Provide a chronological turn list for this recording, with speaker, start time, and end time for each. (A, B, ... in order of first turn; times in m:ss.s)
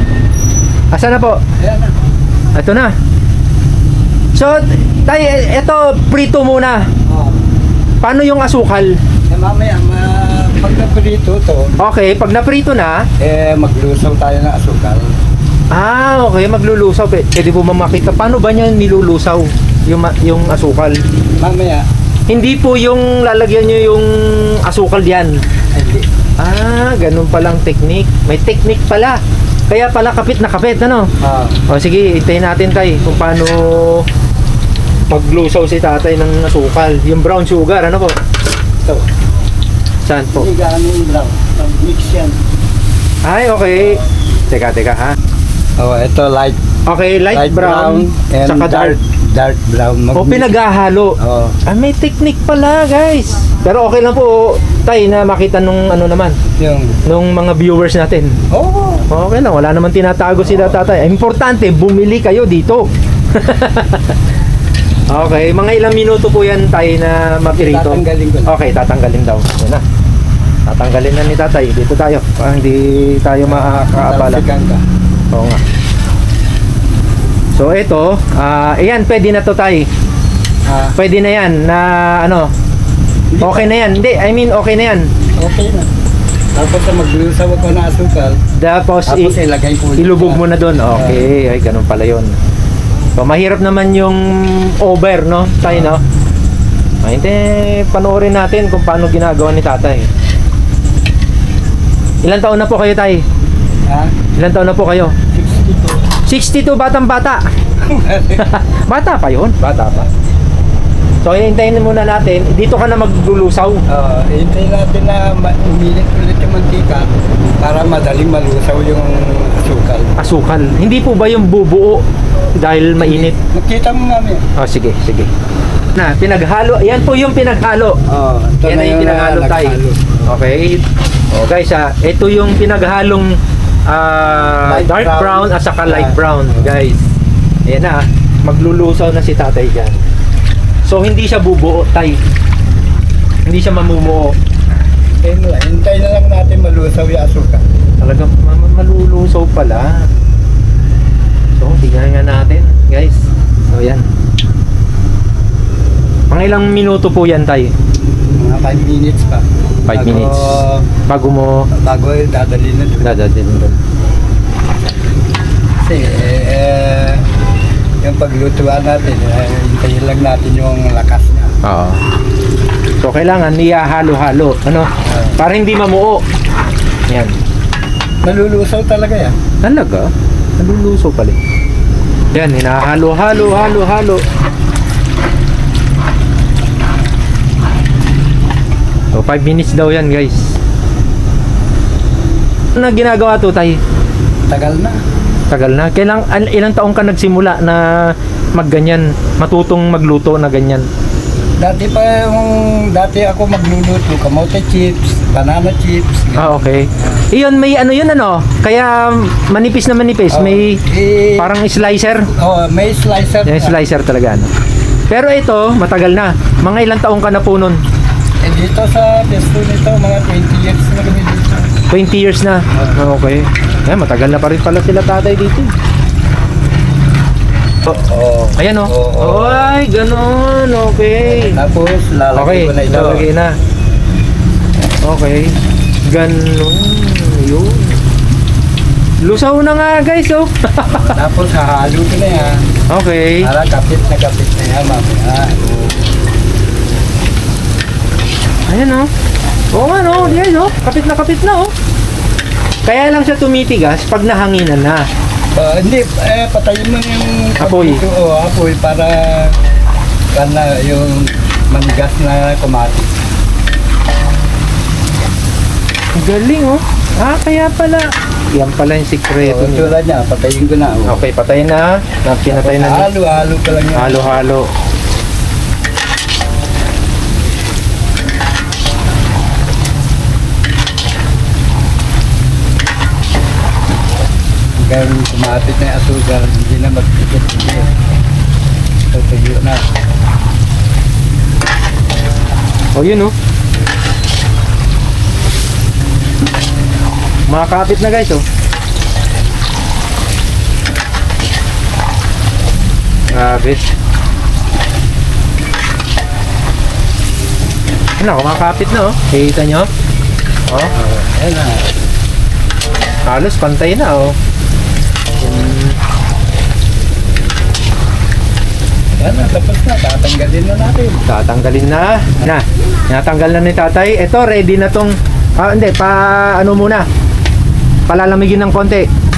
0:00.9-0:01.4 A
0:01.6-0:01.9 B
0:02.5-0:02.9 A
0:04.3-0:06.9 A
0:07.1-0:07.4 B
0:08.0-0:09.0 A
0:09.3-0:11.8 B
0:11.8-0:13.1 A
0:13.2-0:15.1 B
0:15.7-0:21.0 A
0:21.4-0:21.8 B
0:22.3-0:25.4 A
0:25.7-0:26.1 B
0:26.4-0:31.1 A
0:31.2-0:31.6 B
0:31.7-0:34.0 A
0:35.1-0:38.1 A
0:40.0-0:40.5 A
0:40.4-0:42.4 B
0:43.2-0:45.2 A
0:45.8-0:46.6 B
0:46.8-0:48.9 A
0:47.3-0:50.6 B
0:50.1-0:56.4 A
0:51.2-0:51.6 B
0:56.5-0:57.0 B
0:57.0-0:58.3 A
0:58.5-0:59.0 B
0:59.1-1:04.2 A
1:05.1-1:09.8 A
1:07.5-1:08.5 B
1:10.6-1:14.4 A
1:13.4-1:14.8 B
1:15.3-1:15.6 A
1:17.5-1:19.9 A
1:20.6-1:21.0 B
1:21.0-1:22.5 A
1:23.3-1:23.7 B
1:23.4-1:25.1 A
1:25.4-1:25.9 B
1:26.5-1:28.4 B
1:28.6-1:29.3 A
1:29.0-1:31.3 B
1:30.0-1:32.3 A
1:33.2-1:36.0 A
1:37.0-1:40.1 A
1:42.2-1:43.2 A
1:43.9-1:44.1 B
1:44.4-1:45.1 A
1:45.3-1:46.0 B
1:46.2-1:47.5 A
1:47.8-1:48.5 B
1:48.4-1:50.1 A
1:51.2-1:53.8 A
1:53.9-2:00.2 B
2:00.2-2:02.0 A
2:02.6-2:03.4 A
2:03.0-2:04.4 B
2:04.6-2:05.3 A
2:05.9-2:08.0 A
2:08.1-2:10.3 B
2:08.6-2:17.0 A
2:14.5-2:16.8 B
2:17.6-2:20.0 A
2:20.8-2:22.2 A
2:23.4-2:24.4 A
2:25.2-2:27.6 B
2:28.0-2:30.1 A
2:31.6-2:34.1 A
2:36.3-2:37.7 A
2:38.3-2:40.8 B
2:39.9-2:41.7 A
2:41.7-2:43.2 B
2:43.0-2:43.8 A
2:45.8-2:47.2 B
2:48.0-2:51.6 B
2:51.6-2:52.0 A
2:53.0-2:56.2 A
2:55.1-2:55.4 B
2:57.1-2:57.3 A
2:58.2-2:59.3 B
2:59.6-3:01.4 A
3:02.3-3:04.2 A
3:09.1-3:10.6 A
3:12.8-3:13.8 A
3:14.5-3:15.0 B
3:15.5-3:20.9 A
3:21.6-3:27.2 B
3:26.3-3:30.8 A
3:30.3-3:31.5 B
3:31.4-3:32.3 A
3:32.3-3:33.8 B
3:33.4-3:34.5 A
3:35.1-3:37.8 A
3:38.4-3:41.7 B
3:41.9-3:45.7 A
3:47.9-3:49.8 B
3:48.6-3:51.6 A
3:51.2-3:53.3 B
3:52.3-3:53.5 A
3:55.0-3:58.0 A
3:59.2-4:01.1 A
4:00.8-4:02.6 B
4:02.9-4:03.5 A
4:03.4-4:05.8 B
4:08.7-4:09.1 A
4:09.7-4:11.7 A
4:12.8-4:15.1 A
4:15.5-4:19.6 B
4:17.6-4:18.0 A
4:20.3-4:23.1 B
4:26.1-4:29.9 A
4:29.4-4:31.2 B
4:31.1-4:33.1 A
4:32.5-4:34.4 B
4:33.9-4:34.7 A
4:44.8-4:47.9 B
4:49.1-4:49.9 B
4:52.9-4:53.3 A
4:57.5-4:58.4 A
5:03.3-5:03.9 A
5:08.2-5:09.9 A
5:10.7-5:10.9 A
5:10.9-5:11.8 B
5:13.2-5:14.4 A
5:15.4-5:16.0 A
5:19.2-5:21.2 B
5:21.2-5:27.0 A
5:28.1-5:29.1 A